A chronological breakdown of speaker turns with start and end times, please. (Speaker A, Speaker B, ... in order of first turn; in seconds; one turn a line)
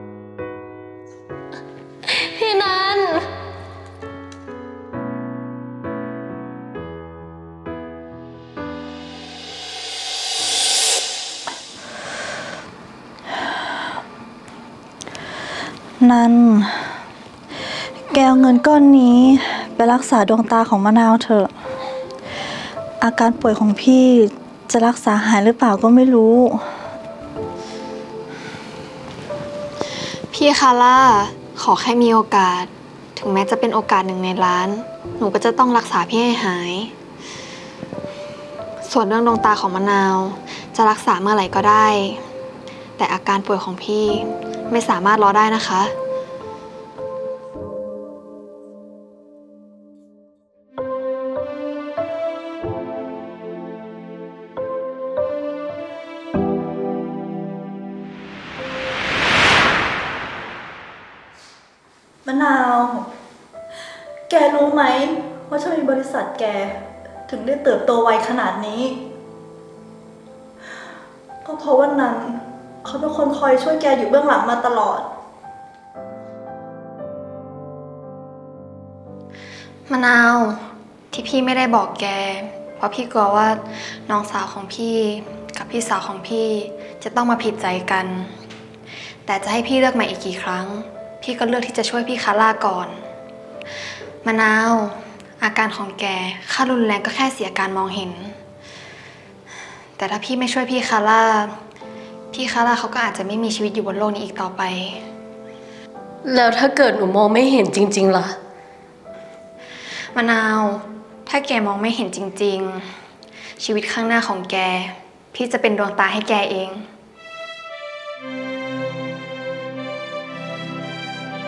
Speaker A: 2.1-3.3
Speaker B: 16.0-16.9
Speaker B: 18.1-21.5
Speaker B: 23.0-26.6
Speaker C: 30.3-36.9
Speaker C: 38.8-42.2
Speaker C: 43.0-45.9
Speaker B: 62.2-63.1
Speaker B: 64.3-69.0
Speaker B: 71.4-75.1
Speaker C: 79.9-88.4
Speaker C: 89.2-93.0
Speaker C: 94.2-98.4
Speaker C: 100.0-101.6
Speaker C: 102.3-105.0
Speaker A: 106.2-108.3
Speaker C: 110.1-112.9
Speaker C: 113.6-116.9